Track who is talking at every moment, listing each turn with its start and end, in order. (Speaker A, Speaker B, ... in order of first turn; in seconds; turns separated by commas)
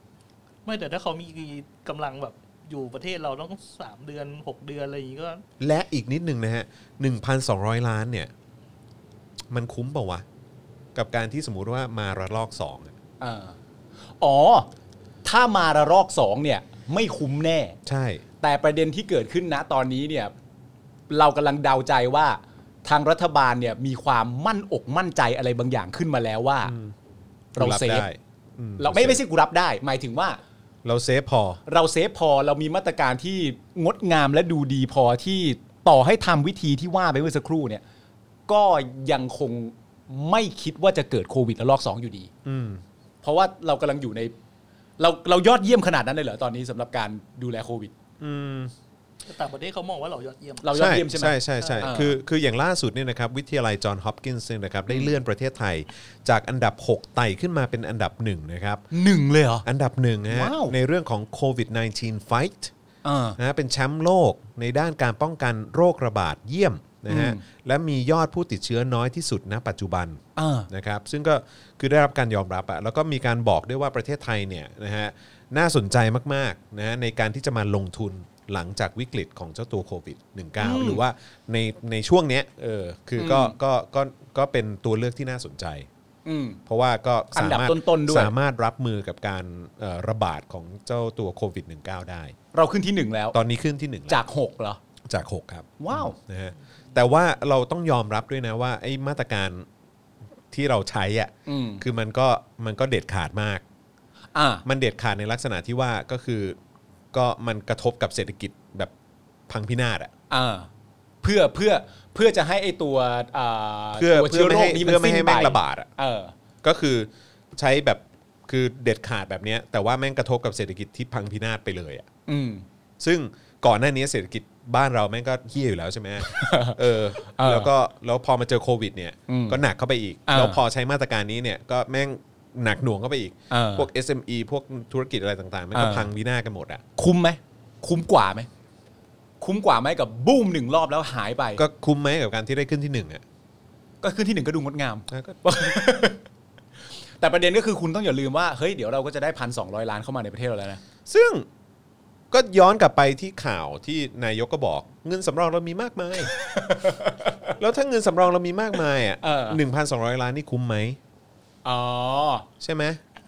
Speaker A: 0.7-5.4, Speaker B: 5.6-8.3, Speaker B: 9.5-10.2, Speaker B: 10.9-12.9, Speaker C: 13.2-13.6, Speaker C: 14.2-14.7, Speaker C: 15.2-17.8, Speaker B: 17.9-18.2, Speaker C: 18.4-20.3, Speaker C: 21.1-26.8, Speaker B: 26.6-26.9, Speaker C: 27.6-28.1, Speaker B: 27.6-29.2, Speaker C: 28.8-30.4, Speaker B: 30.8-31.6, Speaker C: 31.7-37.8, Speaker C: 38.5-42.3, Speaker B: 42.5-42.8, Speaker C: 43.2-44.3, Speaker C: 45.0-47.9, Speaker B: 48.2-48.7, Speaker A: 49.3-50.7, Speaker C: 50.6-52.2, Speaker B: 50.7-58.8, Speaker A: 51.6-52.0, Speaker C: 58.9-59.6, Speaker B: 59.6-62.7, Speaker C: 60.3-60.8, Speaker C: 63.0-63.4, Speaker B: 63.4-85.9, Speaker C: 67.1-67.4, Speaker C: 70.4-70.7, Speaker C: 80.6-81.0, Speaker C: 83.2-83.5, Speaker C: 86.2-86.6, Speaker B: 86.7-92.3, Speaker C: 87.3-88.3, Speaker C: 92.5-93.4, Speaker B: 93.3-94.2, Speaker C: 94.1-94.8, Speaker B: 95.0-99.7, Speaker C: 95.8-96.2, Speaker B: 100.5-103.6, Speaker C: 101.5-101.8, Speaker C: 104.3-104.7, Speaker B: 104.7-106.6, Speaker B: 107.1-108.9, Speaker B: 109.5-110.1, Speaker C: 110.3-110.7, Speaker C: 111.2-116.3, Speaker B: 113.9-115.9, Speaker B: 116.6-122.1, Speaker C: 122.3-122.7, Speaker B: 123.0-136.8, Speaker C: 126.2-127.7, Speaker C: 129.3-129.6, Speaker C: 130.3-130.6, Speaker C: 133.5-133.9, Speaker C: 135.7-136.1, Speaker C: 137.0-138.5, Speaker C: 139.4-141.6, Speaker B: 141.6-143.2, Speaker C: 144.0-146.2, Speaker B: 145.1-145.4, Speaker C: 147.2-150.8, Speaker B: 151.1-151.5, Speaker B: 152.3-156.3, Speaker C: 156.3-157.5, Speaker B: 157.6-161.0, Speaker C: 159.2-159.6, Speaker C: 161.6-162.5, Speaker B: 162.6-163.0